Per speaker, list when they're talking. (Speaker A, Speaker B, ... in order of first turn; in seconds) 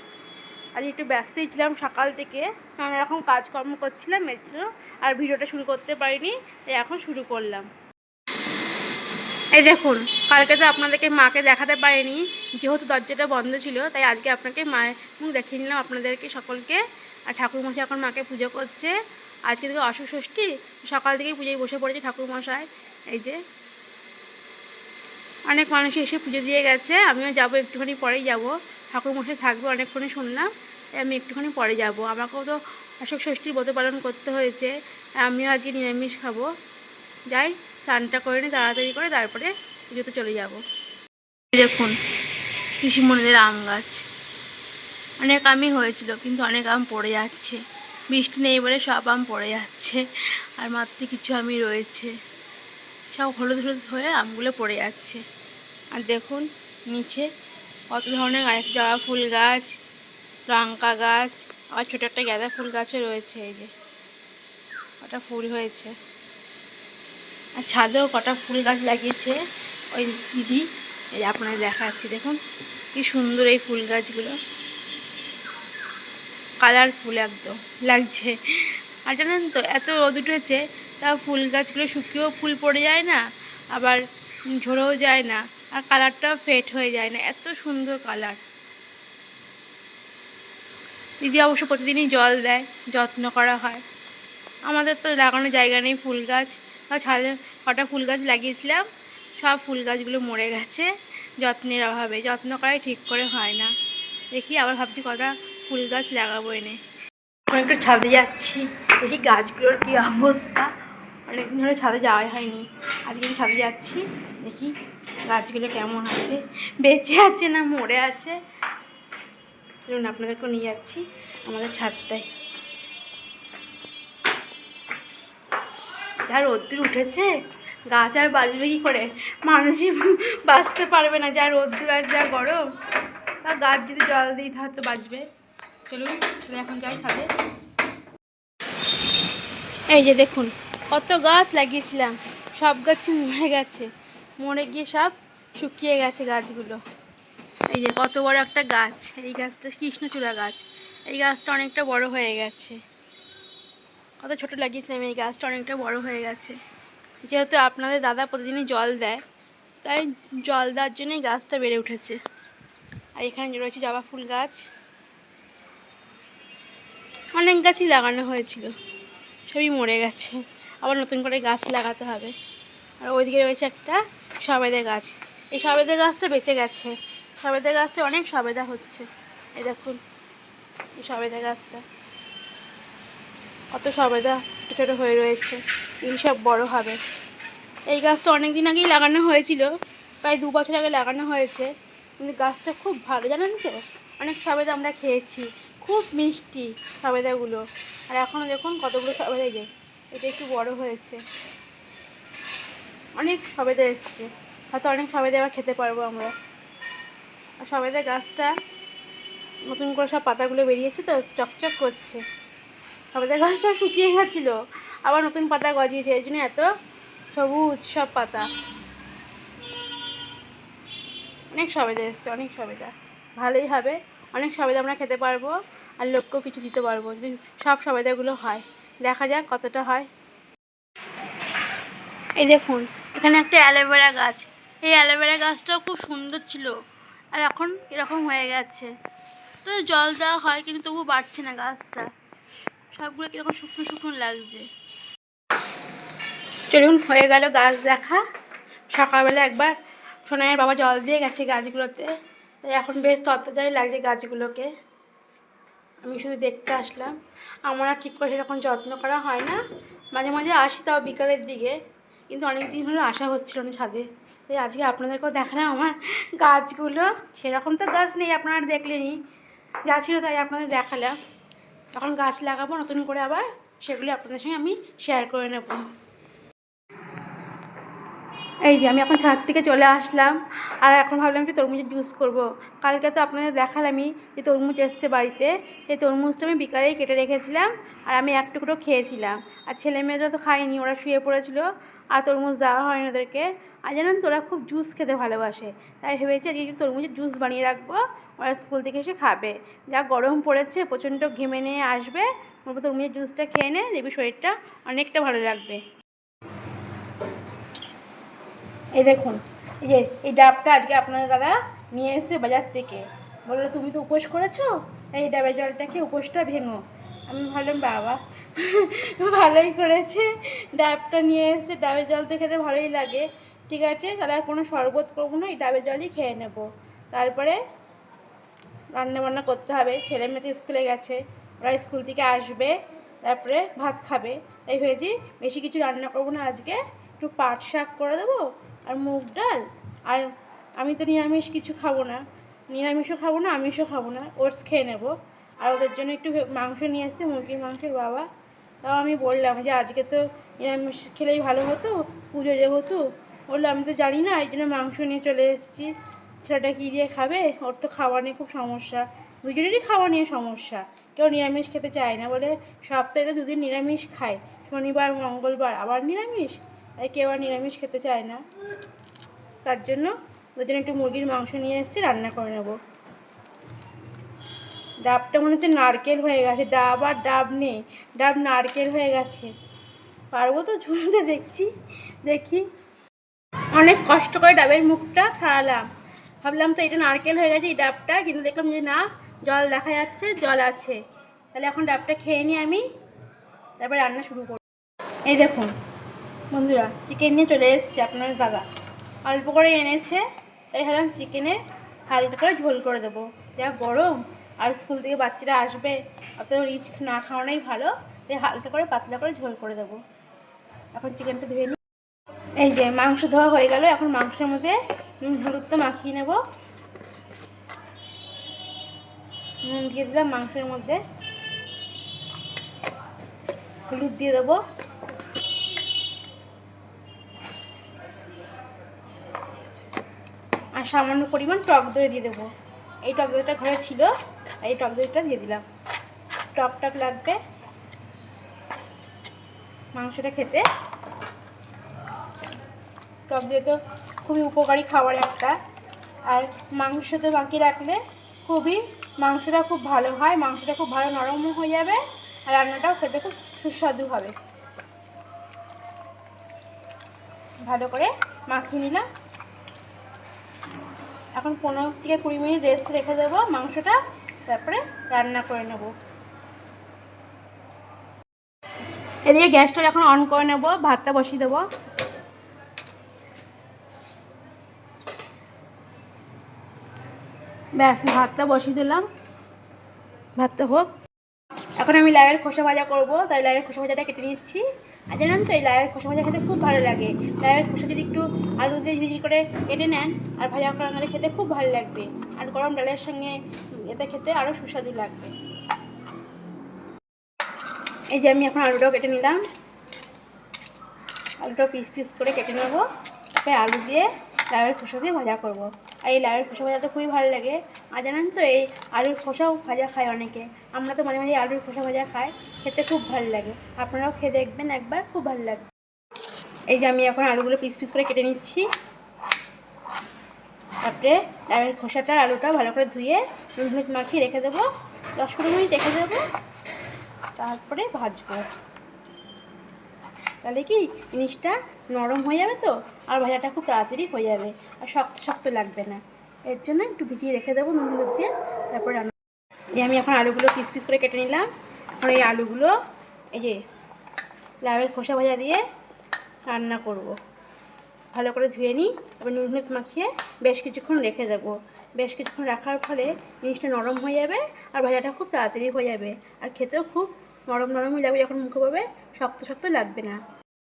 Speaker A: 0.8-7.7, 9.5-19.0, 19.5-23.4, 25.5-34.7, 35.2-36.5, 37.3-40.6, 41.5-42.0, 42.8-44.0, 45.2-47.6, 48.1-50.0, 50.6-52.1, 53.1-55.2, 56.0-57.3, 57.9-59.8, 60.5-63.7, 65.0-65.9, 67.6-69.4, 69.9-72.4, 72.9-74.4, 76.6-83.2, 83.8-84.0, 84.6-88.4, 91.2-93.8, 94.7-98.8, 99.4-103.7, 104.3-106.8, 107.5-110.7, 111.3-114.7, 115.3-118.4, 119.9-122.2, 126.2-127.3, 127.9-132.6, 133.4-135.2, 135.9-137.3, 139.9-143.9, 144.4-146.8, 147.7-152.8, 154.2-156.6, 157.3-159.2, 159.8-162.2, 163.2-164.7, 167.4-168.7, 169.5-172.3, 173.0-180.0, 181.0-181.8, 183.7-187.0, 187.9-189.7, 190.2-201.2, 203.2-206.3, 207.6-208.5, 209.7-212.2, 213.1-216.7, 217.3-218.5, 221.5-230.1, 232.4-236.8, 237.3-238.9, 239.6-242.1, 242.9-244.7, 246.7-248.2, 248.9-249.7, 250.2-252.1, 252.6-254.7, 256.0-259.6, 260.1-261.8, 262.3-269.2, 269.9-271.1, 271.9-275.9, 278.6-305.8, 309.0-327.6, 328.9-340.3, 340.8-348.3, 348.8-355.9, 356.4-368.4, 369.6-372.8, 375.1-379.5, 380.3-381.7, 382.2-382.7, 383.8-385.9, 386.4-391.0, 391.5-392.9, 393.8-394.6, 395.3-395.7, 396.5-398.6, 399.3-401.6, 402.1-410.0, 410.9-411.8, 412.6-416.4, 419.6-421.0, 423.9-424.6, 430.8-432.5, 433.1-434.1, 434.6-435.6, 436.6-437.4, 439.9-440.6, 443.3-445.6, 446.3-454.4, 457.6-459.1, 461.4-465.9, 469.3-471.6, 477.8-479.1, 480.4-480.9, 481.8-493.4, 493.9-495.3, 498.1-499.4, 501.4-502.9, 503.4-515.7, 516.7-518.7, 520.8-526.2, 527.4-528.5, 530.4-539.1, 539.8-542.8, 543.3-543.6, 544.6-545.6, 546.5-547.2, 548.1-560.2